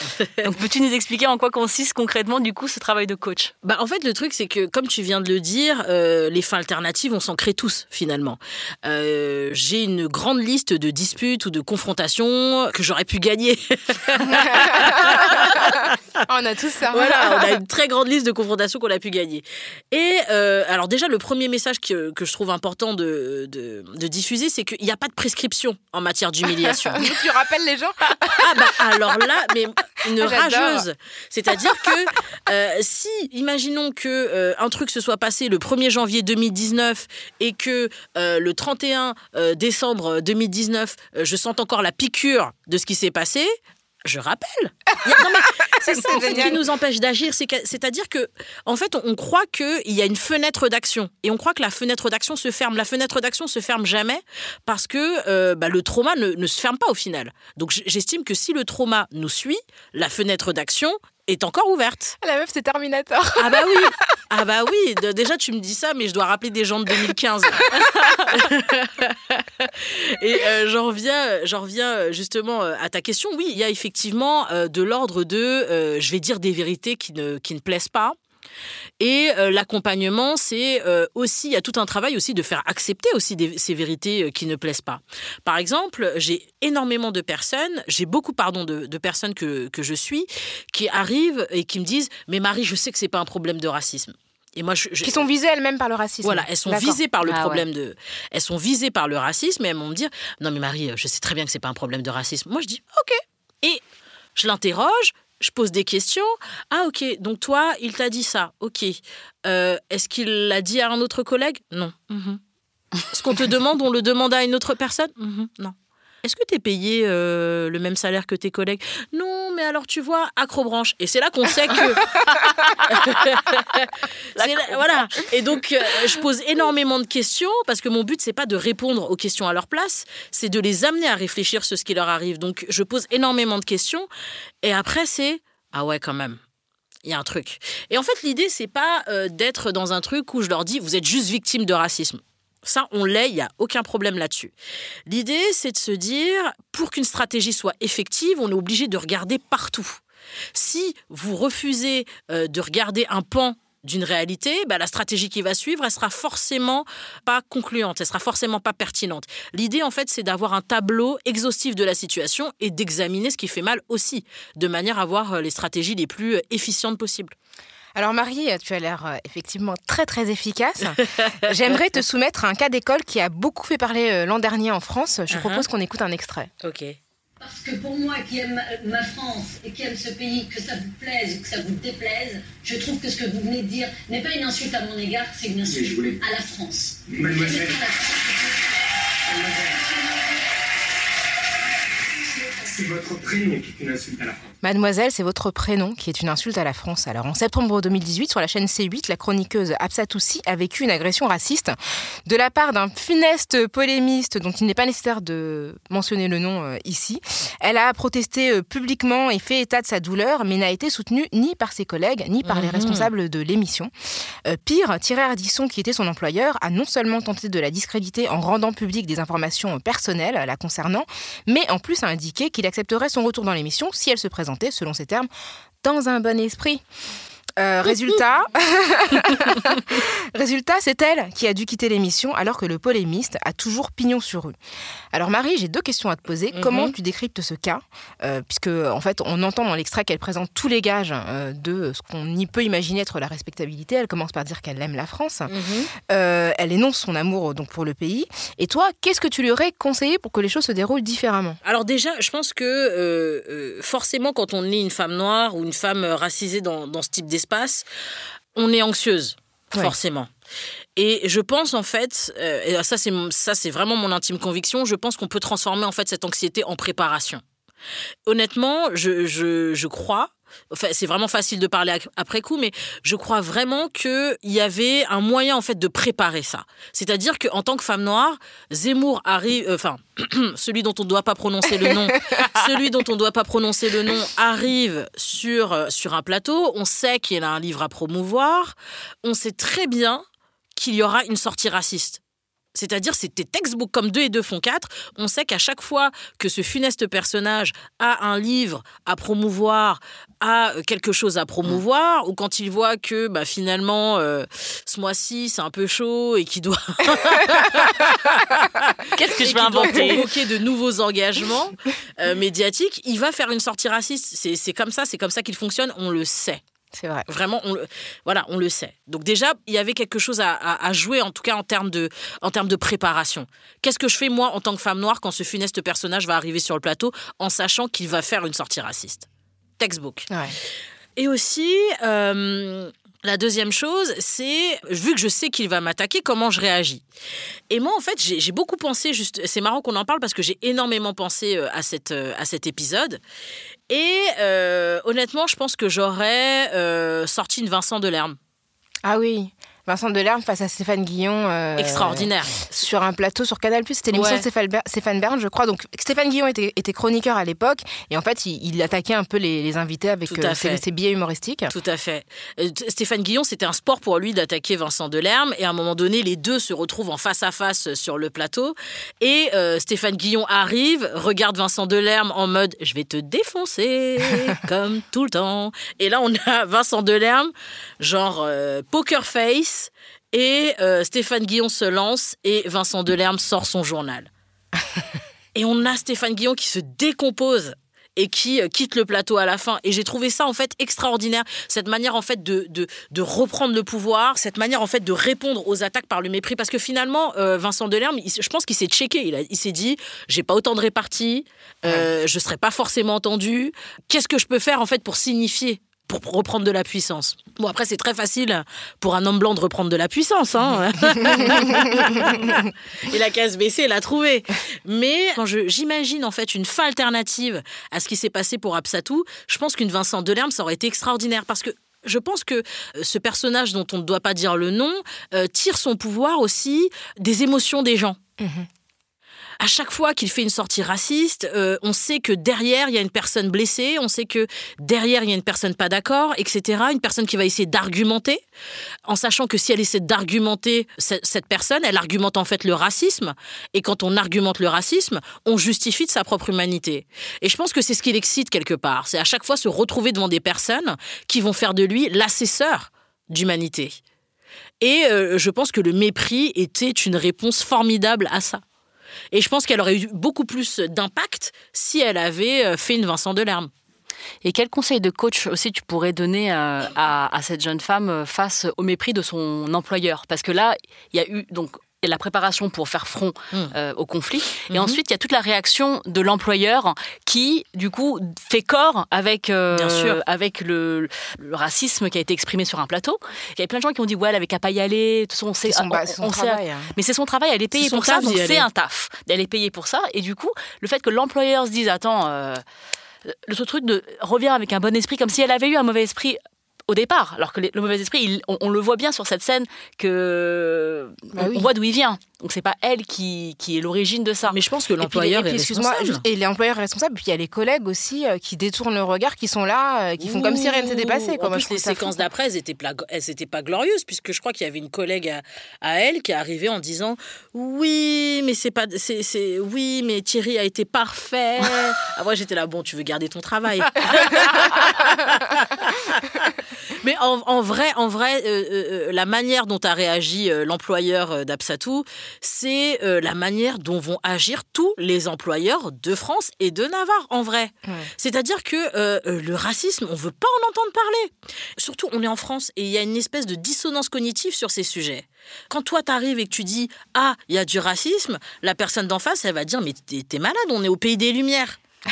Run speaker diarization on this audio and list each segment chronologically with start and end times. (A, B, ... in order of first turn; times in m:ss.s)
0:00.4-0:03.5 A
0:03.6-0:15.9 B
0:14.3-0:17.6 C
0:16.9-0:27.1 B
0:26.6-0:28.8 C
0:28.3-0:43.5 B
0:30.2-0:30.8 C
0:44.0-1:02.2 B
0:45.1-0:46.6 C
1:02.2-1:03.9 C
1:03.4-1:18.2 B
1:19.0-1:35.3 B
1:35.0-1:37.0 C
1:36.2-1:43.8 B
1:37.3-1:37.6 A
1:44.4-1:52.4 B
1:53.1-2:14.1 B
2:02.9-2:03.2 A
2:04.4-2:05.3 A
2:14.6-2:16.4 B
2:17.0-2:24.5 B
2:25.1-2:30.0 B
2:30.6-2:47.4 B
2:48.0-2:56.5 C
2:55.3-2:55.7 B
2:56.6-2:57.0 B
2:57.4-3:10.5 D
3:05.6-3:06.2 E
3:07.1-3:07.8 E
3:12.2-3:12.8 D
3:12.7-3:14.5 E
3:14.6-3:33.9 C
3:32.4-3:33.1 B
3:34.5-3:45.3 C
3:45.8-3:46.8 C
3:47.6-3:54.5 C
3:55.1-4:05.5 C
3:56.5-3:56.9 B
4:05.5-4:05.9 B
4:06.1-4:11.6 C
4:11.6-4:17.9 B
4:18.6-4:20.3 B
4:21.0-4:27.4 B
4:28.3-4:50.2 B
4:42.1-4:42.4 C
4:50.8-4:52.2 B
4:52.7-5:16.6 B
5:09.2-5:10.3 A
5:09.2-5:10.2 C
5:17.0-5:17.3 C
5:17.3-5:29.3 B
5:29.8-5:30.3 B
5:30.3-5:30.6 C
5:31.2-5:37.0 B
5:37.7-5:43.2 B
5:43.9-5:48.4 B
5:49.0-6:01.7 C
5:51.8-5:52.7 B
5:54.1-5:54.4 B
6:00.3-6:00.8 B
6:01.7-6:24.3 B
6:25.6-7:08.2 B
6:51.2-6:51.8 C
7:08.4-7:08.7 C
7:09.6-7:18.4 B
7:19.1-7:34.0 B
7:34.8-7:38.6 B
7:39.3-7:43.7 B
7:44.4-8:12.6 A
7:54.7-7:55.0 B
7:59.7-8:00.2 B
8:05.6-8:06.9 C
8:07.8-8:08.7 B
8:13.2-8:24.6 A
8:21.4-8:21.7 C
8:24.5-8:26.2 B
8:25.0-8:32.2 C
8:30.2-8:46.5 B
8:47.0-9:11.8 B